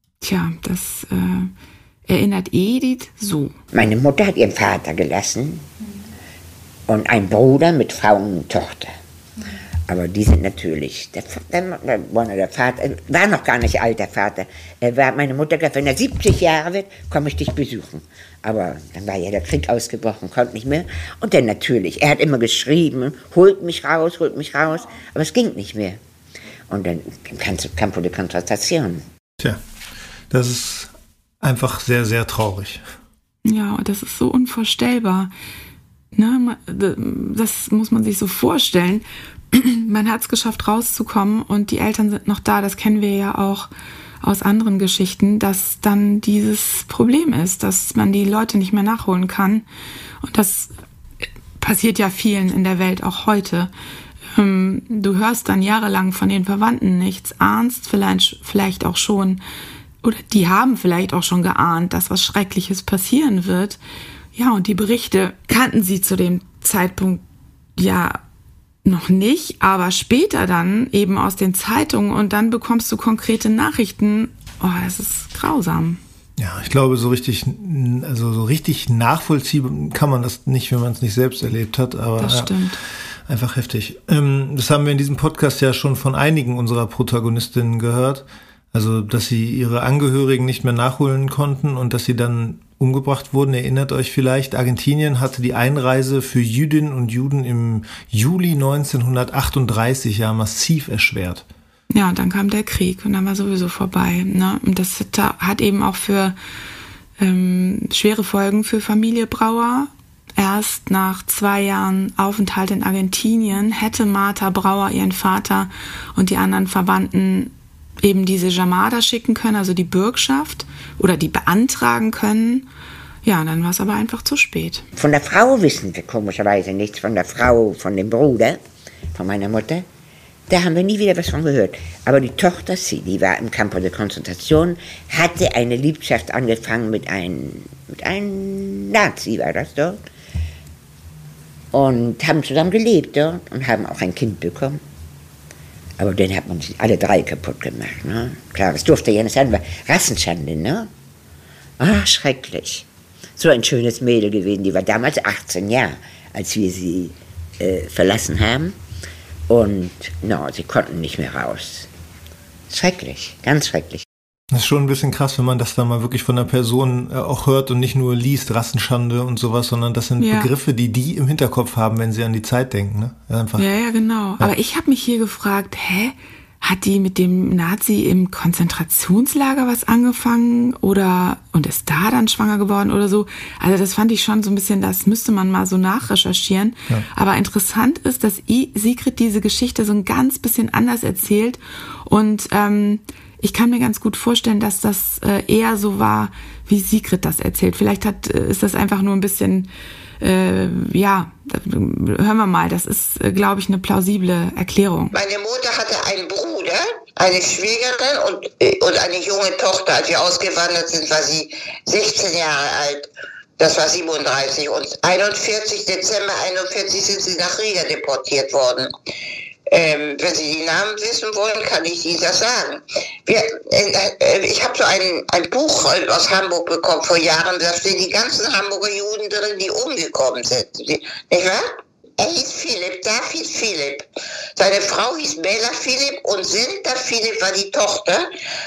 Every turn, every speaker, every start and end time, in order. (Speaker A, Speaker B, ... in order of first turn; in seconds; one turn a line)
Speaker A: 0.2-1.5
Speaker A: 2.1-3.5
Speaker B: 3.7-5.7
Speaker B: 6.9-8.9
Speaker B: 9.9-26.0
Speaker B: 26.7-29.0
Speaker C: 30.3-32.8
Speaker A: 33.5-35.3
Speaker A: 36.1-43.7
Speaker A: 44.2-49.6
Speaker A: 50.2-50.7
Speaker A: 51.6-53.7
Speaker A: 54.4-59.4
Speaker A: 60.0-63.8
Speaker A: 64.3-67.2
Speaker A: 67.8-68.2
Speaker A: 68.8-76.0
Speaker C: 76.4-82.5
Speaker A: 82.2-82.8
Speaker C: 83.3-101.5
Speaker A: 101.9-106.4
Speaker A: 107.2-122.7
Speaker A: 123.2-124.9
Speaker B: 125.0-128.6
Speaker B: 129.1-129.8
Speaker B: 130.5-140.0
Speaker B: 141.7-144.8
Speaker B: 146.0-150.9
Speaker B: 151.8-158.8
Speaker B: 159.5-161.9
Speaker B: 162.7-164.1
Speaker C: 164.5-173.7
Speaker A: 170.2-170.5
Speaker A: 173.6-199.7
Speaker A: 200.2-205.1
Speaker D: 205.1-213.1
Speaker D: 213.6-218.9
Speaker D: 219.7-231.7
Speaker D: 232.2-234.1
Speaker D: 234.6-238.3